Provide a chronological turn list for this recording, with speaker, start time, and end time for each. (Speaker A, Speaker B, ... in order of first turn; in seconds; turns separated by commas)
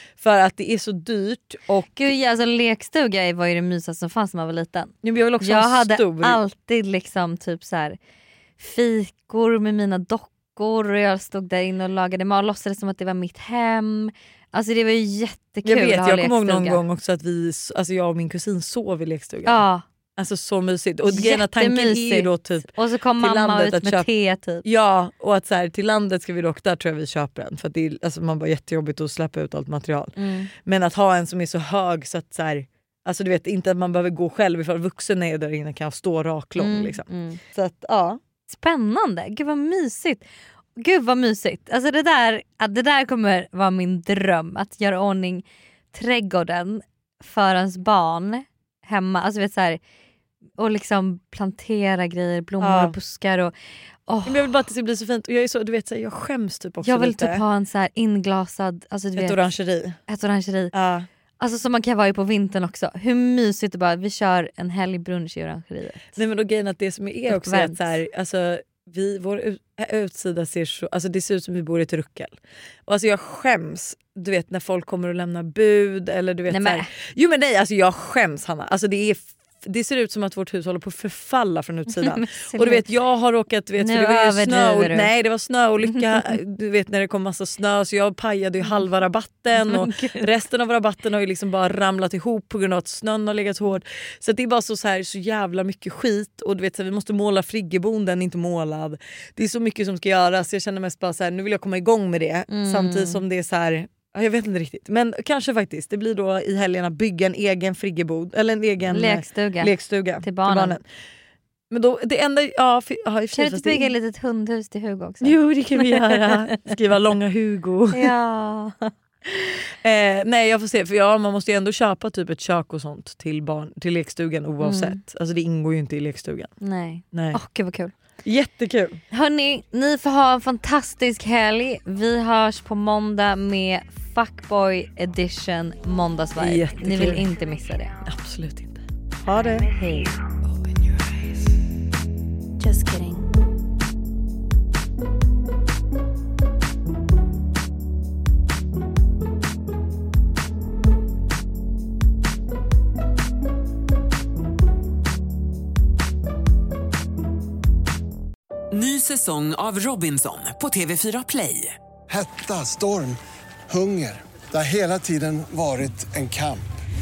Speaker A: 0.2-2.1, Speaker B: 2.0-8.0, Speaker A: 5.0-6.4, Speaker B: 8.6-16.8, Speaker A: 15.7-19.6, Speaker B: 19.4-19.9, Speaker A: 20.2-24.1, Speaker B: 21.1-24.6, Speaker A: 24.6-38.2, Speaker B: 30.2-30.5, Speaker B: 36.6-37.4, Speaker B: 38.5-49.8, Speaker B: 50.6-53.5, Speaker A: 52.6-53.0, Speaker B: 54.1-54.5, Speaker A: 54.2-57.4, Speaker B: 56.8-59.5, Speaker A: 59.2-60.0, Speaker B: 60.1-60.7, Speaker A: 60.7-61.1, Speaker B: 61.4-66.2, Speaker A: 66.2-72.3, Speaker B: 67.3-67.9, Speaker A: 72.9-110.8, Speaker B: 76.5-76.9, Speaker B: 82.0-82.8, Speaker B: 83.8-85.1, Speaker B: 89.5-90.3, Speaker B: 102.5-103.2, Speaker B: 108.9-110.8, Speaker A: 111.7-113.9, Speaker B: 113.3-116.6, Speaker A: 115.2-118.1, Speaker B: 117.9-118.9, Speaker A: 119.8-126.5, Speaker B: 124.6-125.0, Speaker B: 126.6-127.9, Speaker A: 127.1-127.4, Speaker A: 128.2-129.0, Speaker B: 129.1-138.0, Speaker A: 136.4-137.3, Speaker A: 138.0-139.7, Speaker B: 139.7-140.2, Speaker B: 142.6-143.2, Speaker C: 158.7-161.8, Speaker D: 162.1-166.6